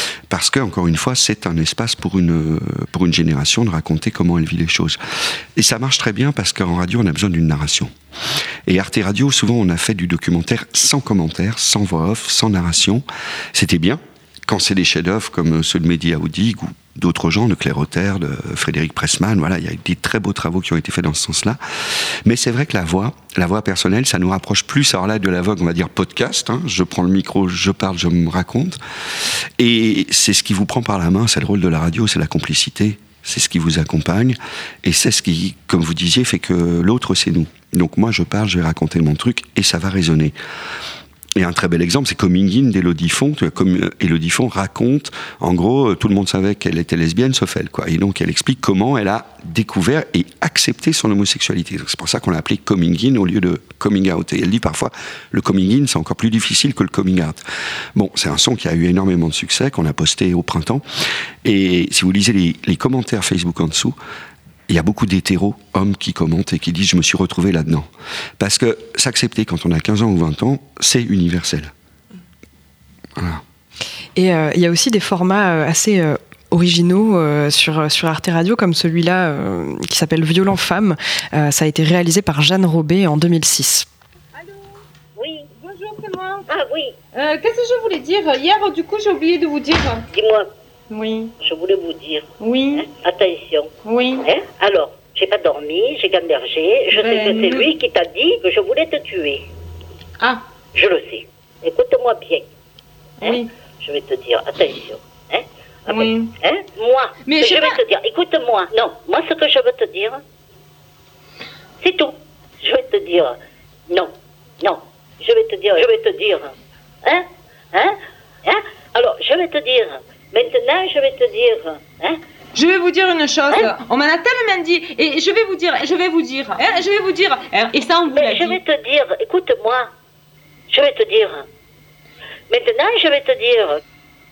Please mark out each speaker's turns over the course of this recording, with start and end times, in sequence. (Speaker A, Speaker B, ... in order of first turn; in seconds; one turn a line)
Speaker A: 0.3-5.0
Speaker A: 5.6-7.9
Speaker A: 8.7-21.6
Speaker A: 22.2-28.8
Speaker A: 29.6-40.4
Speaker A: 41.4-57.4
Speaker A: 58.0-60.9
Speaker A: 61.4-64.0
Speaker A: 64.7-71.7
Speaker A: 73.2-73.4
Speaker B: 74.2-83.9
Speaker C: 85.2-85.5
Speaker D: 85.6-86.5
Speaker C: 86.5-86.9
Speaker D: 87.1-90.1
Speaker C: 90.1-90.5
Speaker D: 90.9-91.3
Speaker C: 91.4-93.7
Speaker D: 92.4-92.9
Speaker D: 93.8-94.3
Speaker C: 94.2-99.4
Speaker D: 96.9-97.7
Speaker C: 100.8-102.5
Speaker D: 103.2-103.5
Speaker C: 103.2-110.2
Speaker D: 105.9-106.3
Speaker D: 107.3-107.8
Speaker C: 111.8-113.4
Speaker C: 113.9-116.5
Speaker C: 117.0-122.2
Speaker D: 122.6-128.6
Speaker C: 128.1-129.9
Speaker C: 130.7-131.5
Speaker C: 132.5-133.8